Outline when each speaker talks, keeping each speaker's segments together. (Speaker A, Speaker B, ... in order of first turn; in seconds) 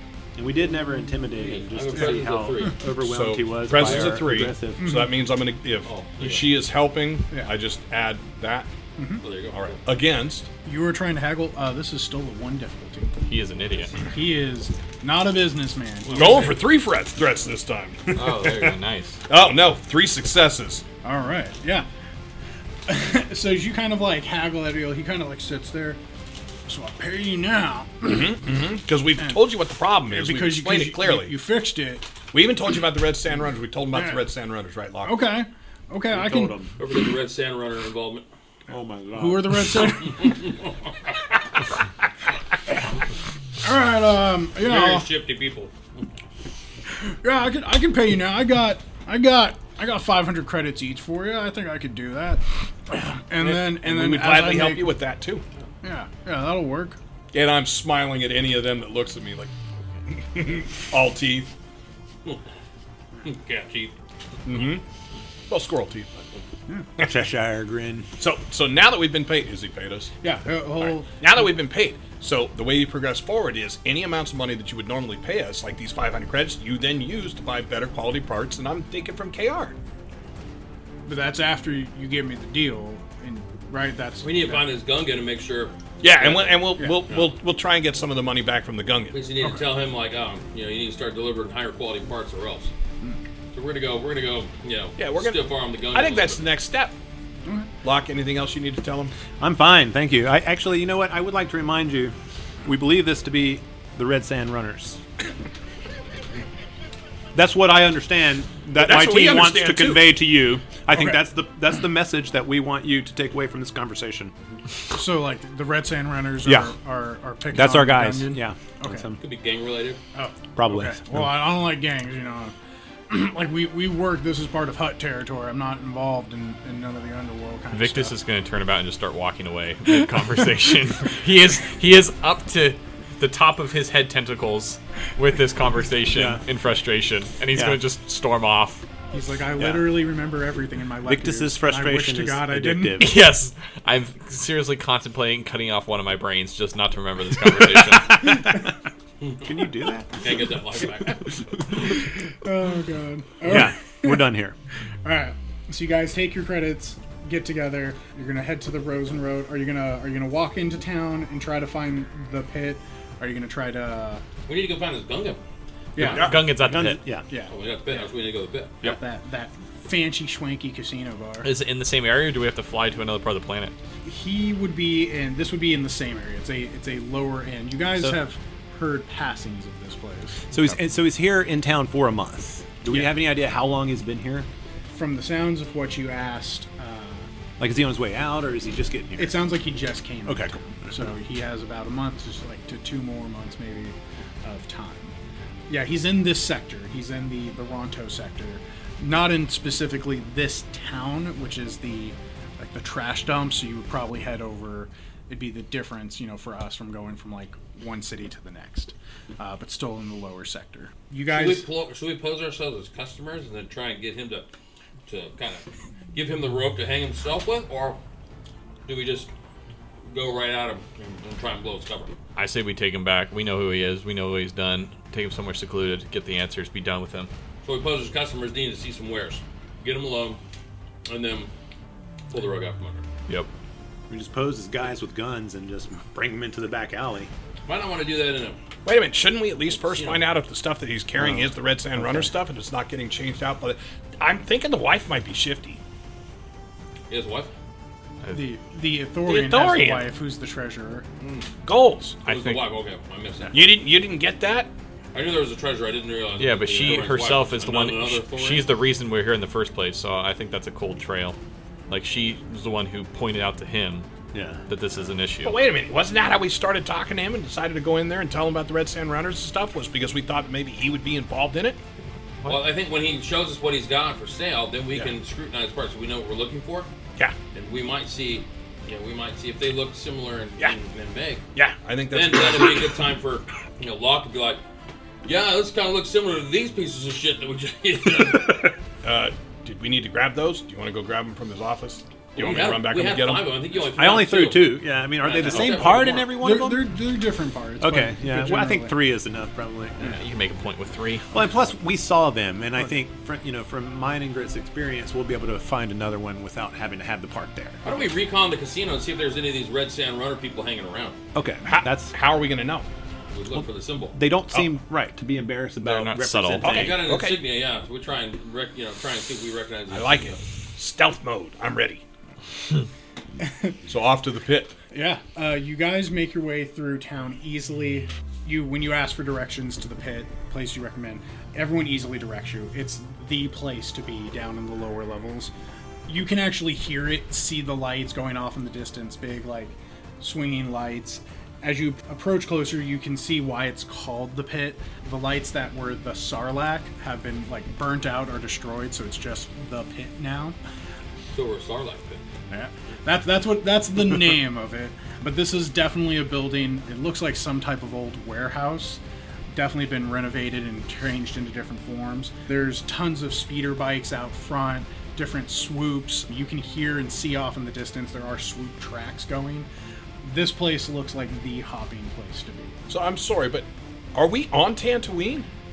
Speaker A: 0.4-4.9, 36.1-36.7, 38.7-39.9, 67.0-68.1, 99.4-105.0, 107.3-114.3, 116.4-116.7, 117.5-119.2, 120.5-121.4, 136.1-136.4, 137.6-137.8, 139.6-140.0, 141.0-143.2, 147.8-148.7, 149.4-150.3, 153.4-154.6, 166.1-167.2, 180.5-184.5, 187.6-189.5, 190.2-190.6, 234.1-237.3, 241.2-242.3, 264.3-264.6, 293.8-296.9, 297.8-300.2, 301.3-308.0, 311.3-312.1, 313.5-317.1
Speaker B: 1.4-2.8, 5.9-6.5, 9.2-9.8, 16.1-16.6, 36.8-38.2, 40.2-40.5, 44.6-46.0, 63.2-63.9, 84.2-87.3, 89.1-92.7, 93.5-96.5, 119.2-120.0, 150.2-151.2, 164.4-165.4, 167.5-168.9, 211.3-214.5, 215.1-218.0, 218.9-219.3, 220.1-222.2, 227.6-230.4, 231.1-231.5, 232.3-233.0, 237.7-238.6, 239.8-240.2, 247.1-247.5, 252.2-253.7, 255.1-258.7, 272.4-276.9, 277.5-281.4, 282.1-284.6, 285.2-288.7, 292.4-296.3, 307.8-311.2, 313.3-314.1, 316.6-320.4, 351.3-352.2
Speaker C: 3.0-8.7, 9.5-10.5, 16.1-20.8, 28.0-31.4, 32.3-35.3, 53.4-55.4, 57.3-59.5, 60.1-61.5, 64.4-64.8, 65.5-66.3, 68.2-70.1, 70.8-79.8, 86.0-89.2, 95.0-96.9, 97.8-99.1, 108.8-110.2, 238.8-245.8, 249.2-250.1, 251.6-252.2, 253.5-254.7, 265.4-271.8, 281.6-283.0, 289.0-293.5, 311.6-312.9, 314.5-314.8, 316.6-317.4, 319.9-322.0, 323.9-324.8, 372.9-375.5
Speaker D: 4.8-5.2, 9.0-9.2, 10.6-13.1, 14.0-16.5, 21.0-21.9, 22.9-26.0, 26.7-28.4, 30.1-32.1, 33.9-34.3, 35.0-36.6, 39.1-40.5, 43.6-45.1, 47.1-54.9, 55.8-57.0, 70.2-71.2, 81.0-84.7, 110.9-111.3, 114.9-119.1, 120.1-122.5, 123.1-128.2, 139.1-143.1, 151.7-154.3, 155.1-164.2, 165.9-166.3, 167.3-168.1, 168.8-171.5, 174.1-180.4, 184.9-187.3, 189.2-195.1, 195.7-211.7, 248.3-251.1, 296.3-299.0, 323.4-323.7, 324.9-335.5, 336.1-350.6, 352.5-369.7, 370.2-372.8
Speaker E: 13.2-13.9, 18.1-19.2, 127.7-138.8, 143.0-148.5, 166.0-167.0, 171.4-173.7, 180.5-180.8, 222.4-227.3, 252.2-252.6, 256.4-261.4, 261.9-264.1, 264.7-265.6, 300.0-301.2, 315.8-316.8